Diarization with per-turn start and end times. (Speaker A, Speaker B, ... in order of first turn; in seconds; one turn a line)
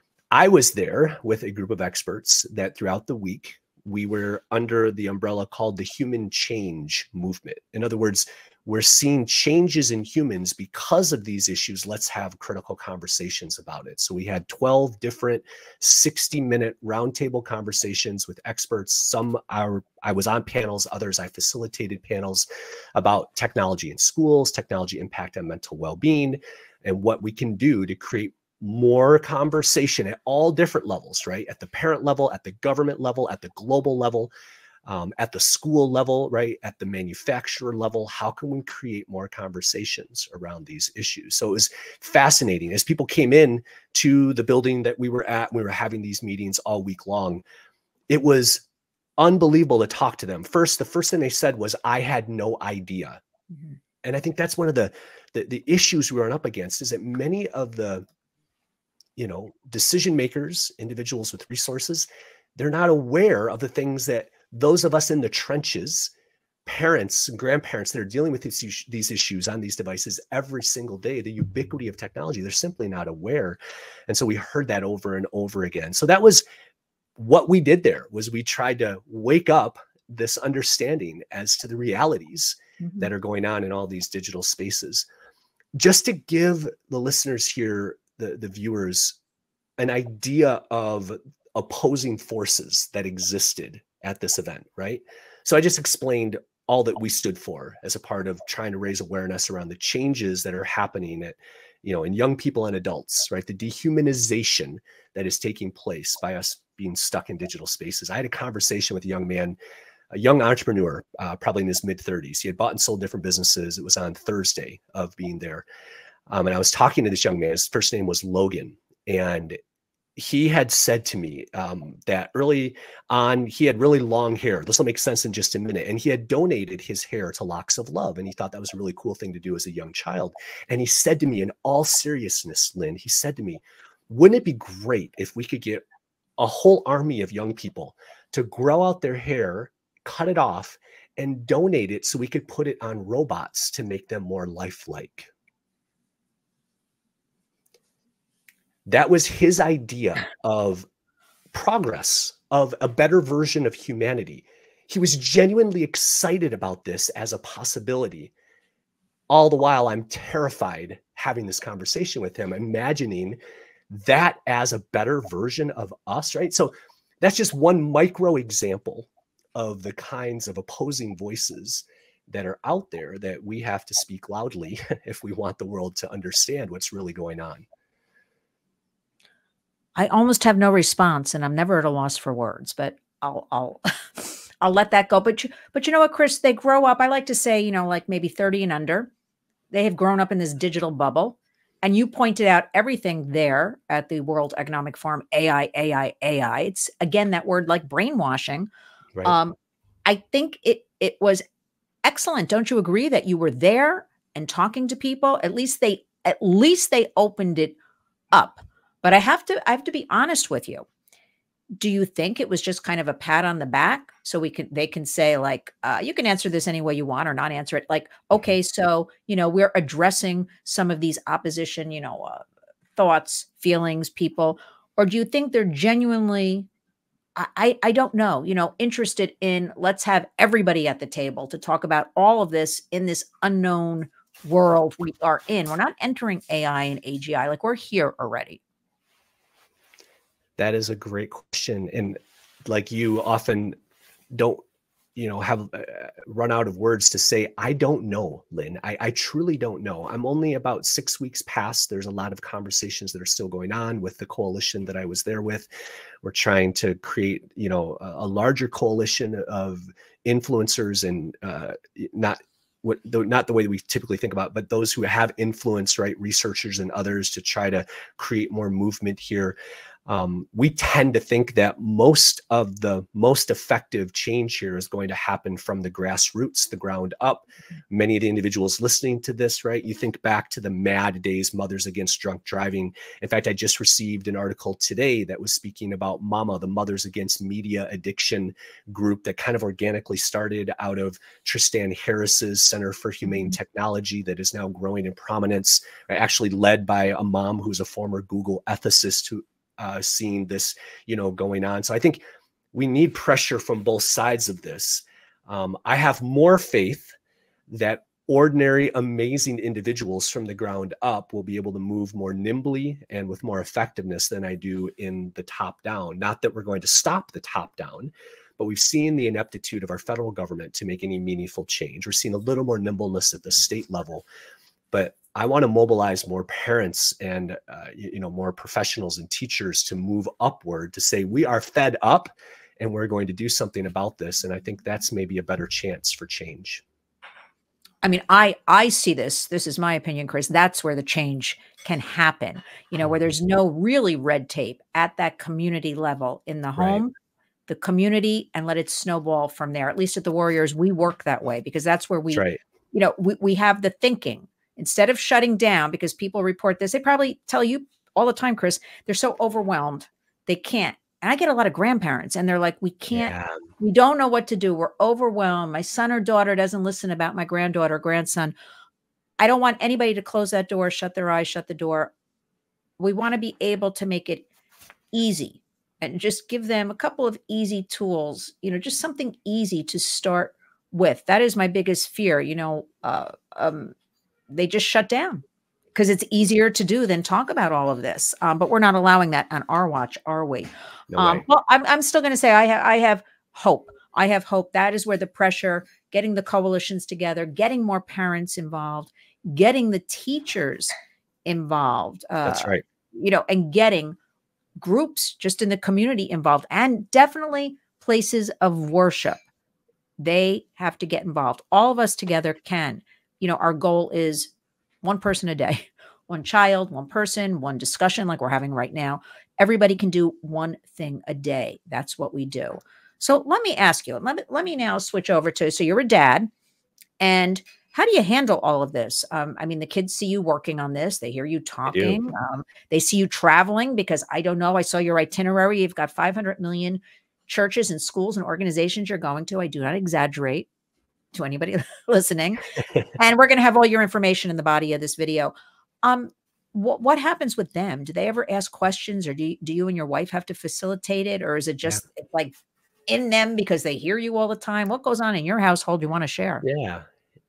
Speaker A: 0.3-34.3
Speaker A: 34.8-47.4
Speaker A: 48.1-48.6
Speaker A: 49.2-53.2
Speaker A: 54.0-58.0
Speaker A: 59.2-66.1
Speaker A: 66.6-76.4
Speaker A: 77.2-85.0
Speaker B: 82.8-83.1
Speaker A: 85.8-89.2
Speaker A: 89.8-109.5
Speaker A: 110.1-115.7
Speaker A: 116.3-119.6
Speaker A: 120.2-135.8
Speaker A: 136.4-145.3
Speaker A: 148.9-150.9
Speaker A: 151.5-158.3
Speaker A: 159.3-163.4
Speaker A: 163.9-177.6
Speaker B: 179.9-189.1
Speaker B: 189.7-198.7
Speaker B: 199.2-199.5
Speaker B: 200.1-201.4
Speaker B: 202.0-207.8
Speaker B: 208.3-210.8
Speaker B: 211.8-222.4
Speaker B: 222.9-226.7
Speaker B: 227.3-238.6
Speaker A: 240.6-243.7
Speaker A: 244.3-244.6
Speaker A: 245.1-255.7
Speaker A: 256.2-269.5
Speaker A: 270.1-302.2
Speaker A: 302.7-307.1
Speaker A: 307.7-324.2
Speaker A: 324.9-336.8
Speaker B: 338.0-347.1
Speaker A: 346.8-347.0
Speaker B: 347.7-368.5
Speaker A: 352.3-352.6
Speaker A: 363.1-363.6
Speaker B: 369.4-372.1
Speaker B: 373.0-374.4
Speaker B: 375.1-383.9
Speaker B: 384.5-385.4
Speaker B: 385.9-400.9
Speaker A: 391.1-391.4
Speaker B: 401.4-404.1
Speaker A: 402.4-402.8
Speaker B: 404.8-409.4
Speaker B: 410.2-426.5
Speaker B: 427.2-440.7
Speaker A: 431.9-432.2
Speaker B: 441.3-442.6
Speaker B: 443.1-452.5
Speaker B: 453.1-456.6
Speaker A: 456.6-457.1